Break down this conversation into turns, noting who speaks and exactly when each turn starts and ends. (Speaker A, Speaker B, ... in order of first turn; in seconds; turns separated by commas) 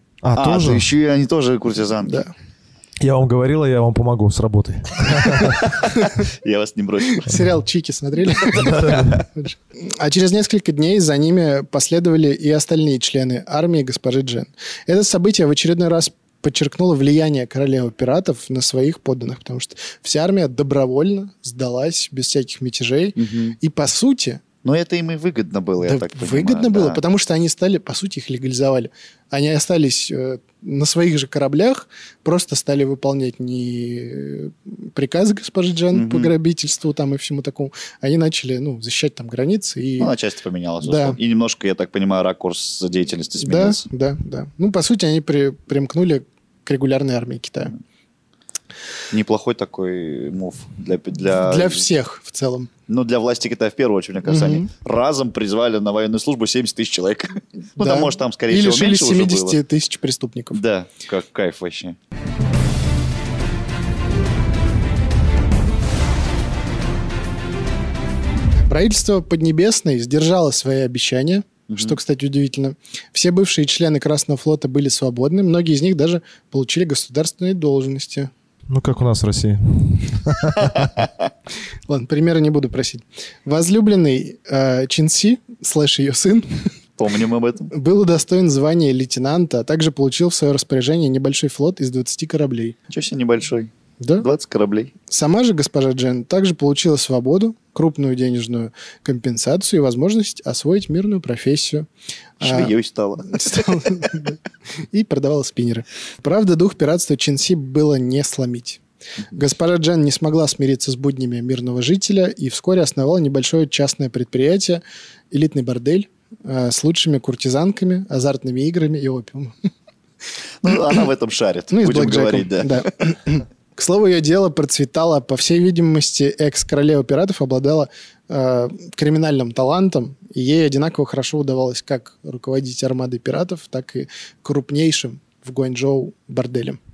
Speaker A: 0.2-0.9, Speaker B: 0.3-2.3, Speaker A: 3.0-5.7, Speaker B: 5.3-7.3, Speaker C: 7.2-24.4, Speaker B: 8.3-9.3, Speaker A: 8.6-9.2, Speaker B: 23.2-23.6, Speaker B: 24.6-27.0, Speaker C: 25.8-40.1, Speaker B: 35.9-36.3, Speaker B: 40.0-43.9, Speaker C: 40.8-41.2, Speaker C: 43.4-47.8, Speaker B: 49.1-51.8, Speaker C: 51.3-52.7, Speaker B: 52.9-59.6, Speaker C: 54.3-54.7, Speaker C: 57.8-60.6, Speaker B: 60.5-62.0, Speaker C: 68.6-78.3, Speaker B: 71.7-72.0, Speaker A: 78.7-81.0, Speaker C: 81.9-86.6, Speaker B: 87.0-87.7, Speaker C: 87.7-92.8, Speaker B: 92.9-94.9, Speaker C: 94.0-94.3, Speaker C: 95.1-101.9, Speaker C: 102.4-102.7, Speaker B: 102.4-103.7, Speaker C: 103.2-104.4, Speaker C: 104.9-108.8, Speaker C: 109.3-119.5, Speaker B: 120.6-122.9, Speaker C: 121.7-136.8